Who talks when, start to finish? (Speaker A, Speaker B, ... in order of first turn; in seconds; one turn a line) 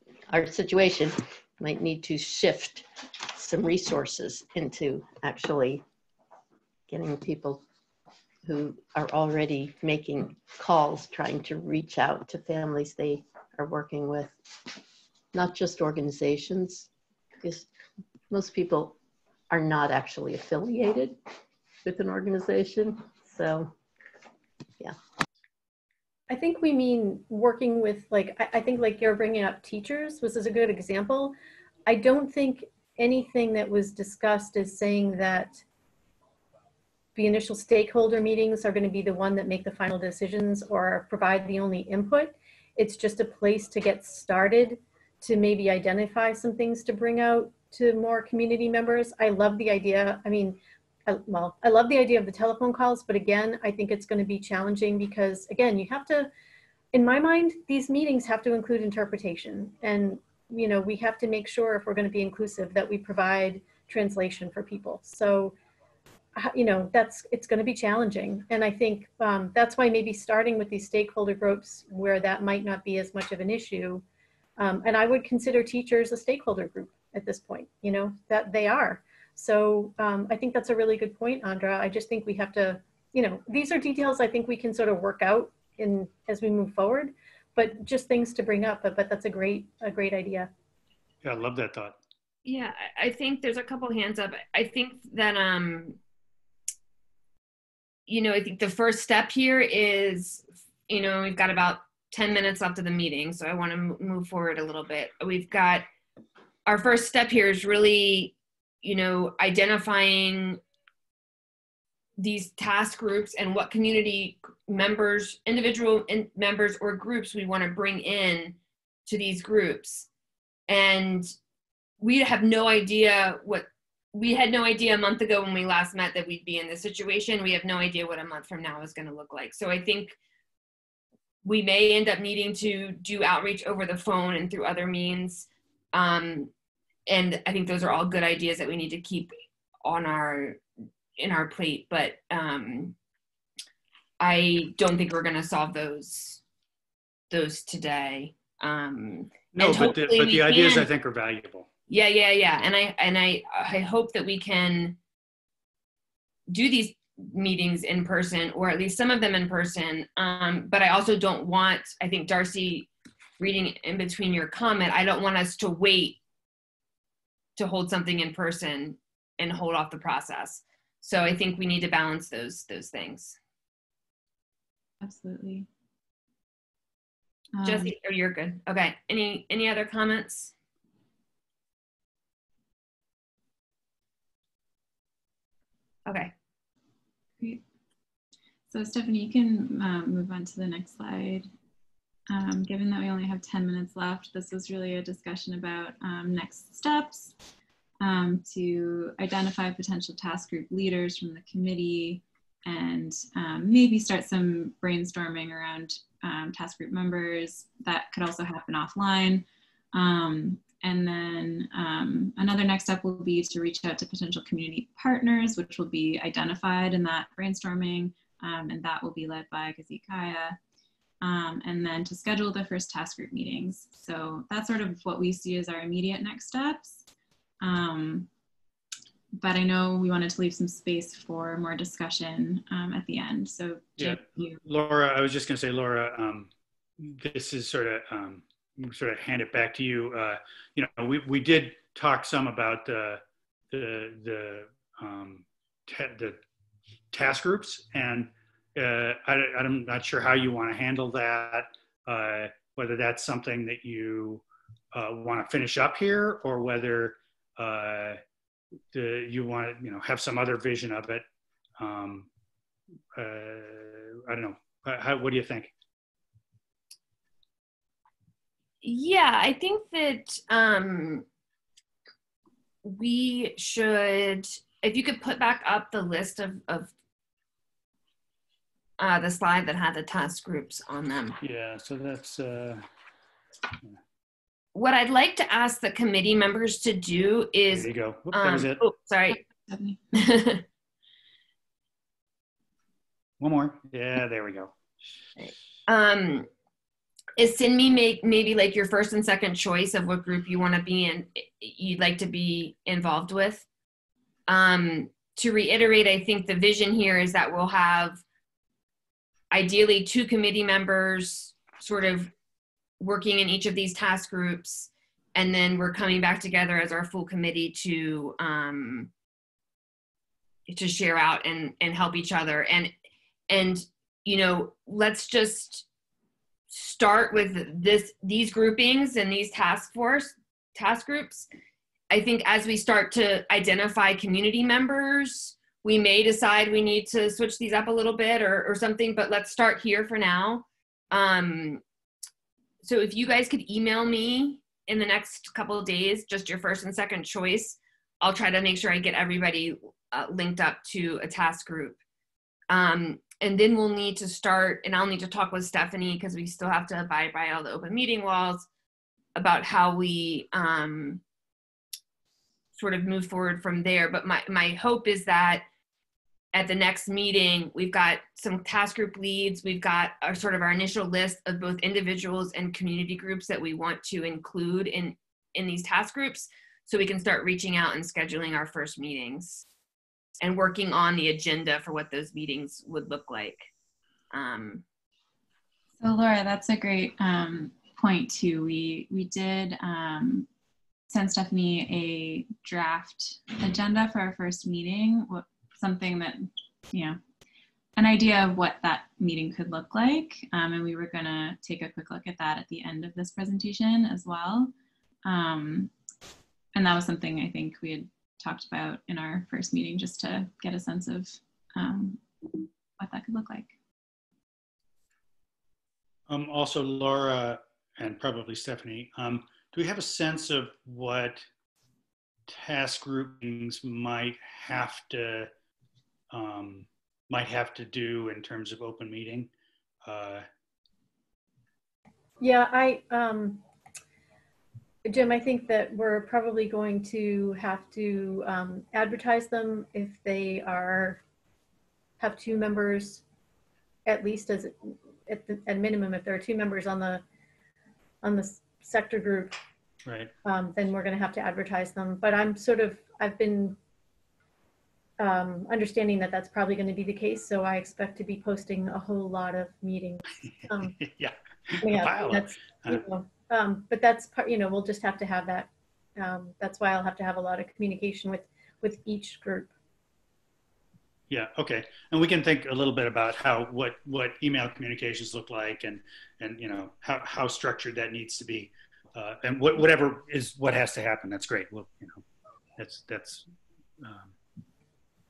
Speaker A: 0.3-5.8
Speaker A: 6.9-7.6
Speaker A: 8.4-14.4
Speaker A: 15.3-16.9
Speaker A: 17.4-17.7
Speaker A: 18.3-19.0
Speaker A: 19.5-21.2
Speaker A: 21.8-23.7
Speaker B: 26.3-31.3
Speaker B: 31.9-35.6
Speaker B: 37.1-56.3
Speaker B: 56.9-65.5
Speaker B: 66.3-74.0
Speaker B: 74.6-90.5
Speaker C: 91.2-92.0
Speaker D: 92.5-96.0
Speaker D: 98.1-105.9
Speaker D: 106.7-110.6
Speaker D: 112.2-120.1
Speaker D: 120.7-121.3
Speaker D: 122.0-130.2
Speaker D: 131.4-136.5
Speaker D: 137.1-140.6
Speaker D: 141.2-142.9
Speaker D: 144.2-146.4
Speaker D: 147.3-150.9
Speaker C: 149.5-151.7
Speaker D: 151.9-155.0
Speaker D: 156.5-166.2
Speaker D: 167.6-173.4
Speaker E: 175.0-175.7
Speaker E: 177.6-177.9
Speaker D: 177.6-180.5
Speaker D: 186.1-186.3
Speaker E: 188.7-191.5
Speaker E: 192.3-197.3
Speaker E: 198.0-220.6
Speaker E: 221.2-227.0
Speaker E: 227.6-228.3
Speaker E: 229.4-234.6
Speaker C: 234.0-246.4
Speaker C: 247.1-254.4
Speaker C: 254.9-258.2
Speaker C: 258.9-261.2
Speaker C: 261.8-262.3
Speaker C: 263.1-265.7
Speaker D: 268.8-271.2
Speaker D: 272.8-276.9
Speaker D: 279.0-281.4
Speaker C: 281.4-282.8
Speaker D: 284.7-289.4
Speaker C: 287.7-288.8
Speaker E: 289.6-290.0
Speaker D: 290.1-290.6
Speaker C: 293.4-294.7
Speaker D: 295.4-296.5
Speaker D: 297.4-303.6
Speaker D: 304.5-308.2
Speaker D: 309.5-312.3
Speaker D: 313.0-319.1
Speaker D: 320.7-322.9
Speaker D: 323.5-325.8
Speaker D: 326.7-331.5
Speaker D: 332.1-341.8
Speaker D: 342.8-352.0
Speaker D: 352.7-358.7
Speaker D: 359.3-361.2
Speaker D: 362.7-365.6
Speaker D: 366.5-379.6
Speaker D: 380.4-383.7
Speaker D: 384.3-384.8
Speaker E: 386.0-390.5
Speaker E: 391.1-397.2
Speaker E: 397.9-404.7
Speaker E: 405.2-405.9
Speaker E: 406.7-412.2
Speaker E: 413.0-413.7
Speaker C: 416.3-421.4
Speaker C: 422.5-425.5
Speaker C: 426.3-429.5
Speaker C: 430.1-430.4
Speaker B: 432.4-433.6
Speaker B: 435.0-441.2
Speaker B: 442.2-443.2
Speaker B: 444.1-447.2
Speaker B: 448.2-449.5
Speaker C: 450.0-450.3
Speaker B: 450.4-453.8
Speaker B: 455.2-461.0
Speaker C: 461.0-463.0
Speaker B: 461.8-469.7
Speaker C: 471.3-482.2
Speaker C: 482.8-483.4
Speaker C: 484.0-484.3